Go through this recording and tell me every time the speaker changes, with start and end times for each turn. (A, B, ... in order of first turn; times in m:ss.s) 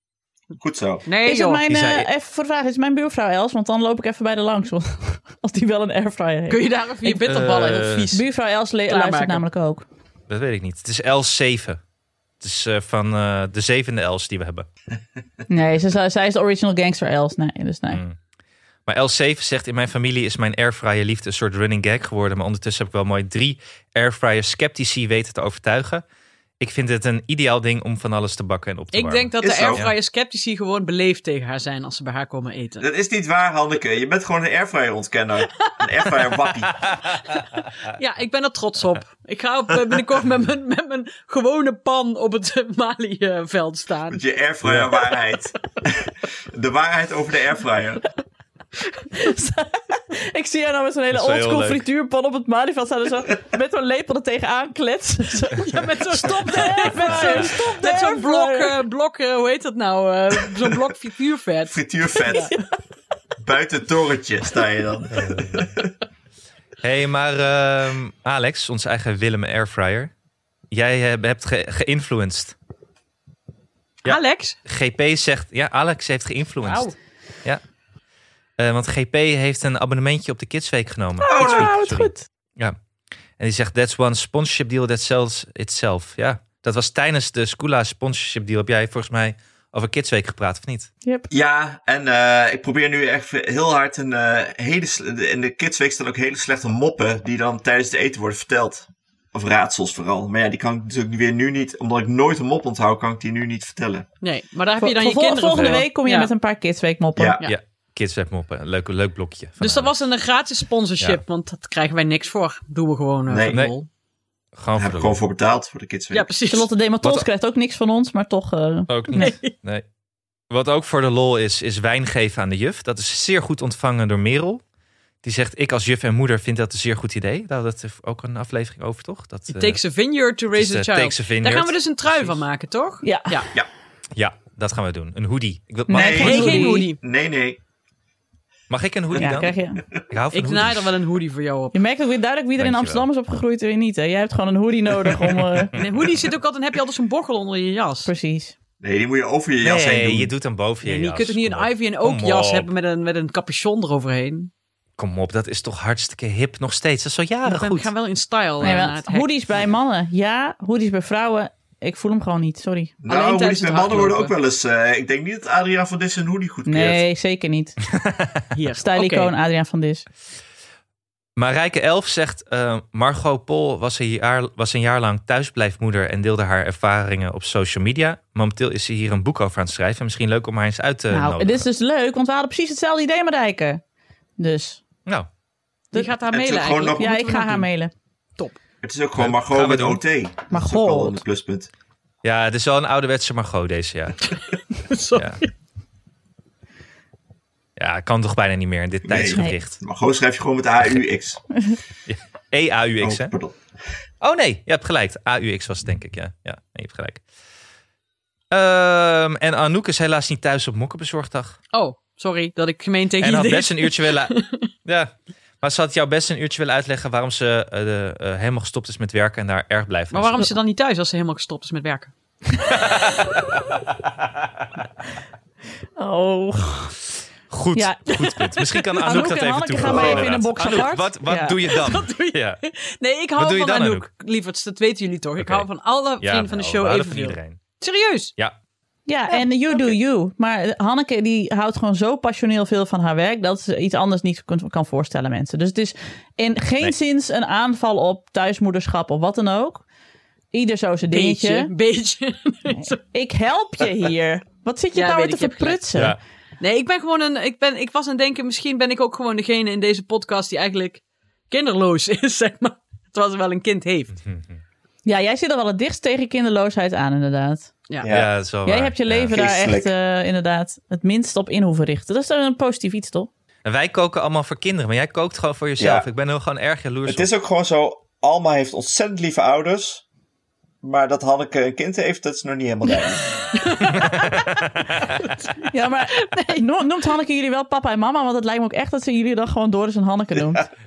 0:00.6-0:01.0 A
0:01.0-0:01.6 B
0:01.2-0:07.2 C
0:01.7-0:02.1 D
0:06.5-0:08.2 B
0:07.3-0:08.1 D
0:08.1-0:09.8 C
0:08.9-0:09.4 B
0:10.3-0:11.8 D
0:12.4-0:14.7 D
0:15.5-0:18.0 C
0:17.9-0:18.2 D
0:18.8-0:26.0 D
0:26.6-0:29.9 D
0:28.9-0:32.9 B
0:29.4-0:29.8 A
0:32.8-0:36.8 A
0:37.9-0:44.2 B
0:44.1-0:48.0 A
0:44.6-0:44.9 D
0:49.1-0:58.7 C
0:51.1-0:51.8 D
0:55.5-1:02.5 B
1:01.7-1:02.5 A
1:02.3-1:02.6 C
1:03.4-1:05.9 A
1:05.1-1:05.7 D
1:06.8-1:10.1 D
1:10.7-1:12.5 D
1:14.0-1:14.6 B
1:14.0-1:16.9 D
1:16.6-1:16.9 B
1:18.6-1:22.8 D
1:21.2-1:22.2 C
1:21.4-1:21.7 B
1:23.4-1:30.9 D
1:31.3-1:44.0 A
1:44.2-1:46.3 B
1:44.8-1:47.4 C
1:45.5-1:45.8 D
1:47.2-1:47.4 A
1:47.4-1:49.9 D
1:49.6-1:53.9 B
1:53.3-1:53.6 A
1:54.6-1:55.2 D
1:54.8-1:56.3 A
1:56.1-1:56.7 B
1:56.5-1:59.3 C
1:58.9-1:59.8 D
1:59.1-1:59.5 B
2:00.5-2:04.6 D
2:05.2-2:09.8 D
2:09.5-2:13.5 B
2:10.5-2:12.4 D
2:13.0-2:13.4 C
2:14.2-2:16.6 D
2:15.9-2:16.9 C
2:15.9-2:17.6 A
2:16.2-2:17.0 B
2:18.7-2:20.9 D
2:19.2-2:19.8 C
2:20.3-2:21.8 B
2:21.7-2:25.8 C
2:22.6-2:23.1 D
2:25.2-2:25.9 D
2:25.8-2:28.1 B
2:28.0-2:28.5 C
2:28.8-2:30.3 A
2:29.6-2:32.7 D
2:30.8-2:34.5 B
2:35.0-2:37.9 D
2:37.4-2:39.3 B
2:38.6-2:42.9 C
2:43.0-2:47.0 A
2:43.1-2:44.4 B
2:46.6-2:47.8 C
2:47.9-2:48.4 D
2:48.5-2:49.3 B
2:48.8-2:50.0 C
2:51.4-3:01.7 D
3:01.1-3:03.8 C
3:04.4-3:04.8 C
3:05.9-3:07.7 B
3:06.3-3:07.1 A
3:07.0-3:07.9 C
3:08.8-3:11.7 A
3:09.2-3:10.0 D
3:10.5-3:11.2 C
3:12.2-3:14.3 D
3:14.7-3:15.5 B
3:17.8-3:19.8 D
3:19.1-3:21.4 A
3:22.1-3:23.3 D
3:23.0-3:23.6 A
3:24.2-3:27.2 D
3:28.5-3:31.6 D
3:31.7-3:34.7 B
3:33.2-3:40.5 D
3:40.1-3:42.1 B
3:46.0-3:47.0 C
3:47.5-3:52.6 D
3:48.1-3:49.2 B
3:49.0-3:51.6 C
3:49.9-3:50.8 B
3:51.6-3:58.3 B
3:53.4-3:54.1 D
3:55.4-3:55.7 D
3:56.2-3:57.6 D
3:59.1-4:09.8 C
3:59.3-3:59.9 D
4:10.5-4:11.7 C
4:11.1-4:13.0 B
4:12.8-4:16.2 C
4:14.9-4:15.8 B
4:16.6-4:24.2 B
4:24.2-4:24.6 D
4:25.0-4:27.7 C
4:28.0-4:28.3 A
4:28.1-4:29.4 D
4:28.6-4:33.3 C
4:29.3-4:29.9 A
4:33.6-4:37.3 D
4:35.8-4:36.1 A
4:37.0-4:40.0 A
4:40.8-4:43.3 A
4:43.5-4:46.6 B
4:44.0-4:45.2 D
4:45.6-4:50.7 C